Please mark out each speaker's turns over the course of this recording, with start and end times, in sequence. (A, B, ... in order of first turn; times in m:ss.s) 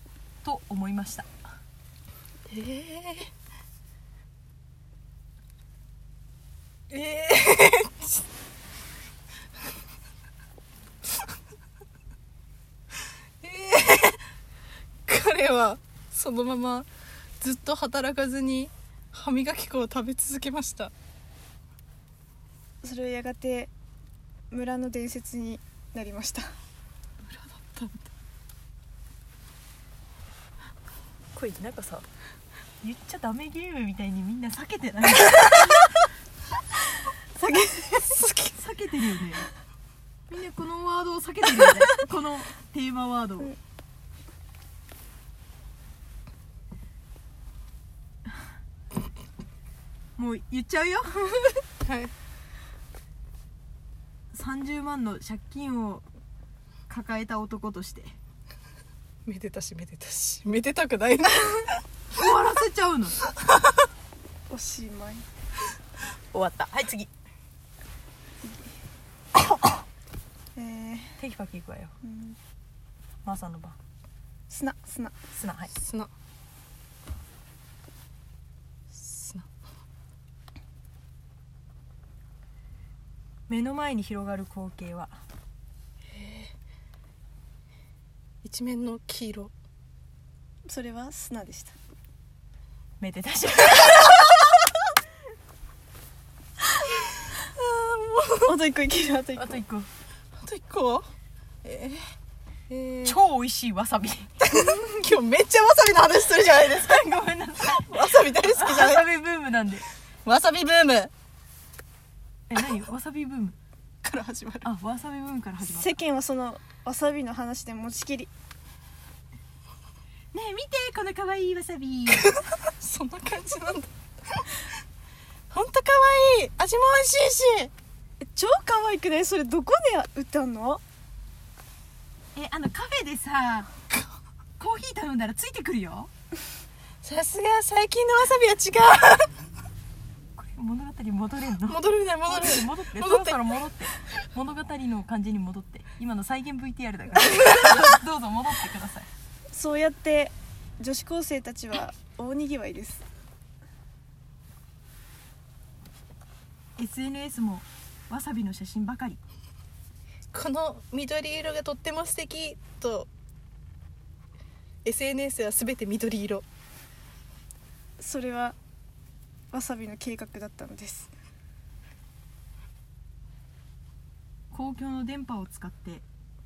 0:00.4-0:01.3 A
0:02.5-0:03.3 B
0:06.9-0:08.2 B
0:13.4-0:14.2 B
0:15.1-0:16.9 B
0:17.4-0:20.9 B
0:22.8-0:23.7 C
0:24.5-0:26.4 C
0:27.2-0:28.0 B
0:31.3-0:32.0 A
0:32.8-0:35.8 A
0:37.4-0:38.2 C
0:38.5-0:39.5 A
0:40.3-0:43.5 A
0:50.2-0:51.6 A
0:51.8-0:52.1 B
0:54.3-0:56.0 A
0:56.9-0:58.1 A
0:59.2-1:01.8 B
1:02.1-1:03.2 A
1:04.5-1:05.2 C
1:06.3-1:07.1 A
1:08.4-1:08.7 C
1:10.6-1:11.2 C
1:11.2-1:11.9 A
1:12.0-1:12.4 C
1:13.2-1:13.8 A
1:14.5-1:15.1 C
1:15.3-1:15.7 A
1:15.8-1:16.1 B
1:18.9-1:19.4 B
1:23.5-1:25.1 A
1:26.2-1:26.5 B
1:28.4-1:29.5 B
1:30.7-1:31.7 C
1:33.0-1:34.4 A
1:37.3-1:38.6 B
1:38.4-1:39.6 C
1:39.4-1:39.9 A
1:40.4-1:41.1 B
1:41.6-1:42.0 B
1:42.7-1:43.2 B
1:43.0-1:44.3 A
1:44.4-1:49.0 B
1:46.7-1:49.8 A
1:50.2-1:51.1 B
1:52.5-1:53.6 A
1:54.0-1:54.6 B
1:54.6-1:55.9 A
1:55.6-1:58.3 C
2:00.3-2:02.4 A
2:02.1-2:04.5 B
2:05.5-2:07.7 B
2:08.2-2:10.8 C
2:12.3-2:13.7 A
2:14.6-2:16.1 A
2:17.0-2:19.3 B
2:20.4-2:29.1 A
2:21.7-2:23.4 B
2:29.5-2:33.0 C
2:36.8-2:39.2 A
2:40.3-2:43.1 B
2:44.8-2:46.4 B
2:48.0-2:48.6 C
2:49.5-2:51.1 C
2:54.5-2:56.0 A